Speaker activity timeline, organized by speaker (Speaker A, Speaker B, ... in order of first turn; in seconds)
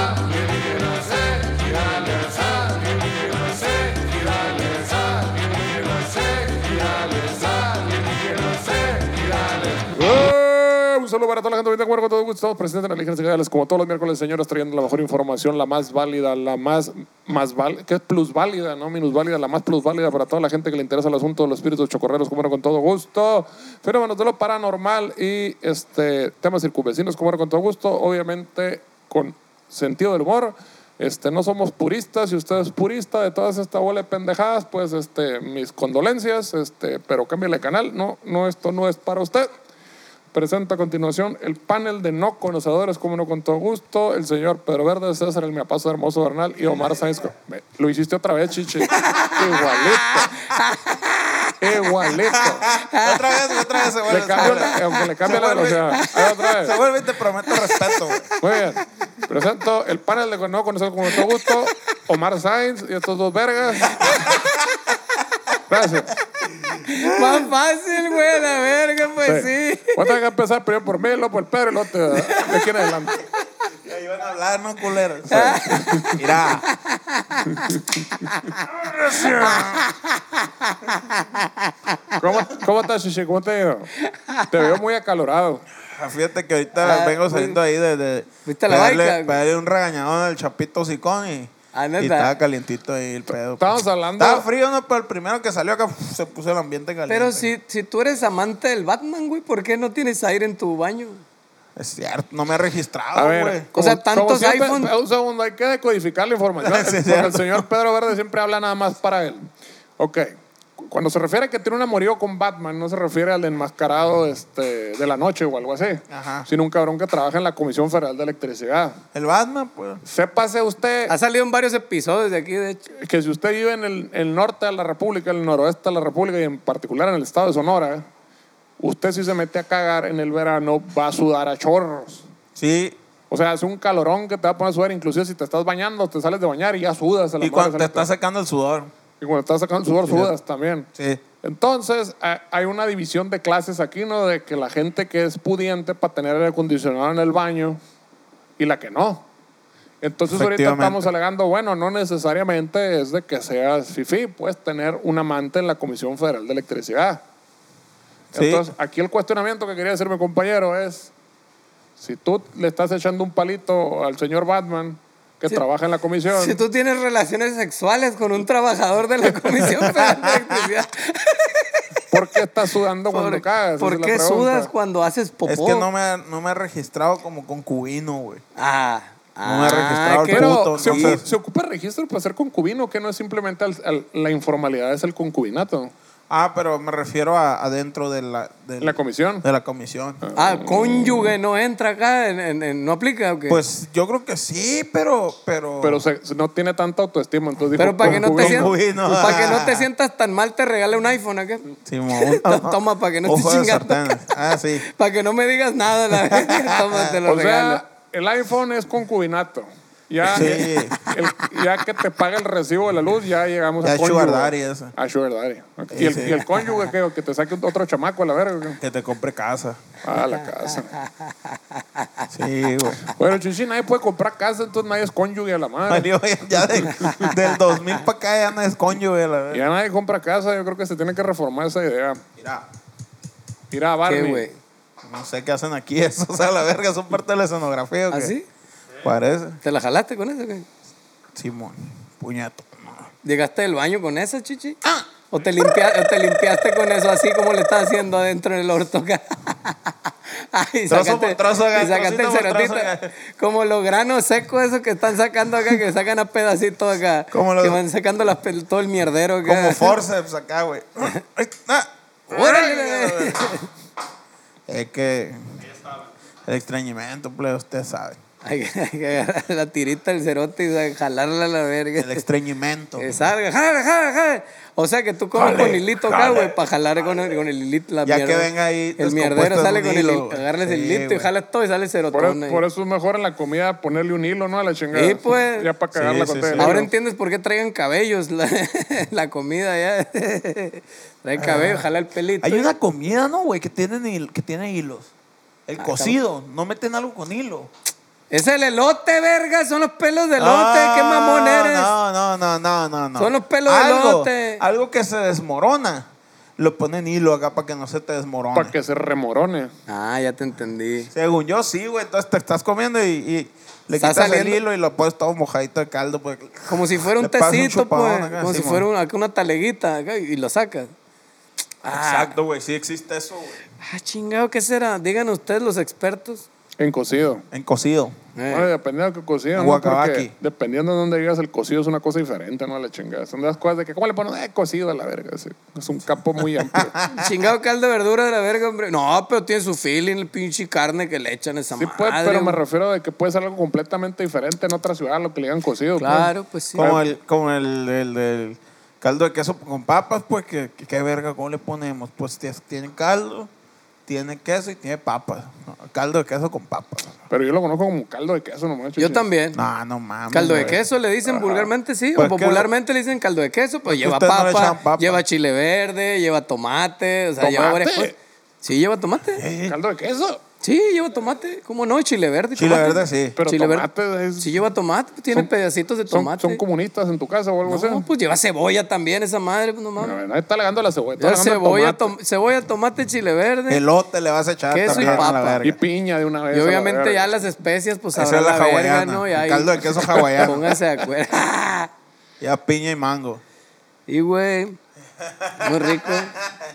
Speaker A: 0.2-39.5, 40.3-50.3, 51.6-52.7, 54.1-56.8, 58.4-64.2, 65.7-66.1, 69.2-73.2, 82.2-83.9, 84.5-85.6, 93.6-94.5, 103.2-119.0, 120.0-121.1, 123.0-128.1, 128.8-132.3, 133.3-138.1, 139.2-140.9, 141.4-147.8, 148.6-149.2, 150.0-157.2, 158.3-161.1, 162.0-166.6, 172.1-174.7, 180.3-185.9, 188.8-189.4, 190.2-191.3, 195.8-198.7, 207.3-218.8, 220.0-220.9, 223.1-226.1, 226.9-227.3, 229.5-232.2, 233.7-234.4, 282.1-286.9, 308.5-309.7, 326.8-327.4, 328.5-337.0, 341.8-347.0, 357.3-359.3, 361.4-361.7, 367.4-368.1, 369.7-370.4, 373.4-374.5, 376.1-378.1, 380.0-382.1, 384.9-387.3
Speaker B: 49.0-51.9, 52.8-55.3, 55.9-56.6, 57.5-58.6, 66.8-70.1, 72.1-73.2, 75.3-78.6, 79.2-82.2, 84.0-84.7, 86.8-87.6, 88.5-89.4, 91.7-92.3, 97.1-101.2, 103.7-104.9, 121.1-122.8, 166.3-172.0, 173.1-175.9, 178.6-181.1, 190.4-193.6, 197.8-207.8, 210.4-211.2, 220.7-221.1, 234.1-234.6, 238.1-238.5, 239.6-240.7, 243.2-244.8, 245.3-260.0, 262.3-263.7, 268.4-272.2, 273.0-282.6, 284.9-285.7, 286.6-292.7, 295.8-296.2, 298.3-301.9, 303.2-304.6, 309.9-311.1, 314.0-314.6, 316.7-320.9, 321.8-322.4, 323.8-326.5, 328.4-328.7, 337.1-342.6, 346.0-346.9, 359.0-359.6, 360.3-369.4, 370.6-373.9, 374.4-376.6, 377.7-380.2, 381.2-383.8, 384.7-385.6, 386.5-391.9, 394.1-394.8, 395.6-396.4
Speaker C: 52.4-55.9, 56.6-58.3, 64.0-64.6, 66.3-67.5, 73.8-76.7, 78.6-79.9, 85.8-97.5, 101.8-103.7, 106.6-107.7, 116.1-116.5, 119.1-120.0, 132.6-133.0, 137.4-138.9, 140.1-140.3, 141.0-141.2, 150.3-151.1, 158.3-158.7, 169.7-170.6, 175.5-178.4, 179.4-181.2, 186.3-190.2, 193.5-196.0, 198.0-199.9, 201.9-204.9, 206.1-207.2, 210.3-211.0, 213.8-214.9, 215.9-216.5, 218.8-219.8, 222.3-223.1, 225.9-229.6, 232.4-232.6, 235.0-238.3, 239.0-239.6, 241.4-243.1, 244.8-246.4, 250.9-253.1, 257.3-257.8, 259.4-263.6, 264.7-265.7, 266.5-268.2, 272.0-273.2, 275.3-276.6, 278.0-281.3, 285.9-286.8, 291.4-291.8, 292.4-295.1, 295.7-297.7, 300.4-306.1, 306.6-308.7, 311.1-318.9, 321.9-323.5, 327.5-328.1, 329.6-330.3, 336.6-337.3, 346.8-353.5, 354.1-357.2, 359.5-360.8, 362.2-362.7, 363.9-365.2, 369.4-369.8, 372.6-373.4, 383.7-385.8, 388.1-390.8, 392.4-393.4, 395.2-396.2